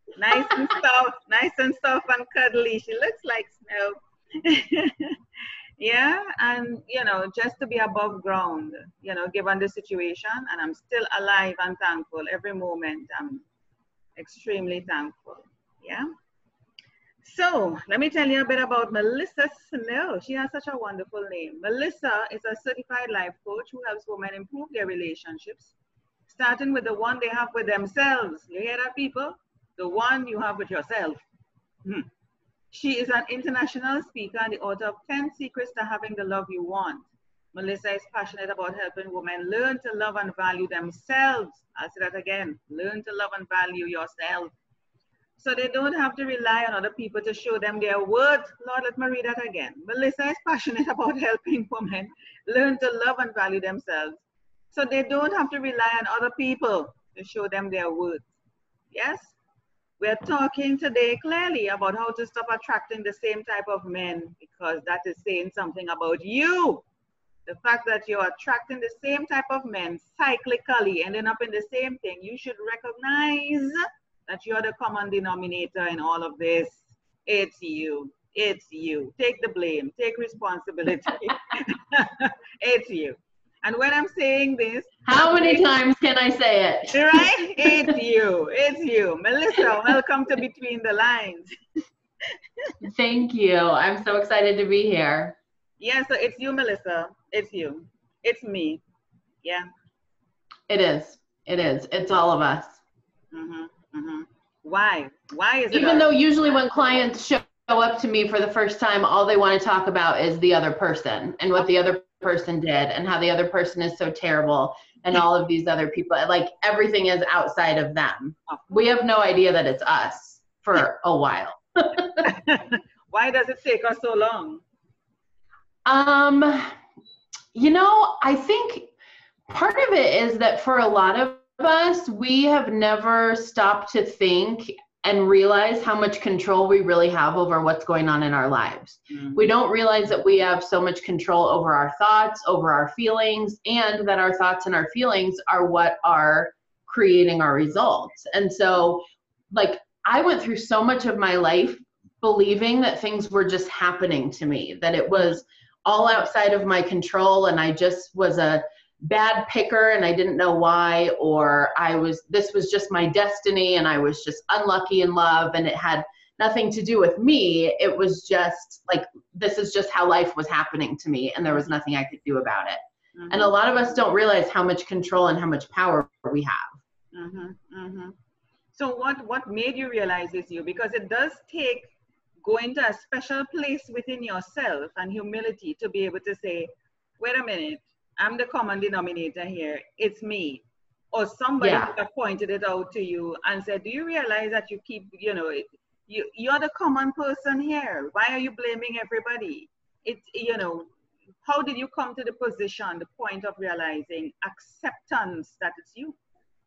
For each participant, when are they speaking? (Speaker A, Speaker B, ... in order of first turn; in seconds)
Speaker A: 0.2-5.2, 5.8-13.4, 14.2-16.1, 17.2-25.7, 26.3-31.2, 32.7-44.5, 45.4-58.2, 58.9-59.4, 60.0-66.8, 67.5-85.6, 86.9-91.5, 95.8-98.8, 103.3-106.1, 118.5-118.9, 122.2-124.6, 139.1-139.5, 173.2-174.0, 177.1-178.2, 178.7-181.9, 182.4-200.9, 201.4-206.2
Speaker B: 0.3-0.7, 85.0-88.0, 92.8-95.4, 100.7-102.8, 105.7-122.3, 125.8-126.7, 127.5-128.9, 129.5-176.8, 191.6-191.9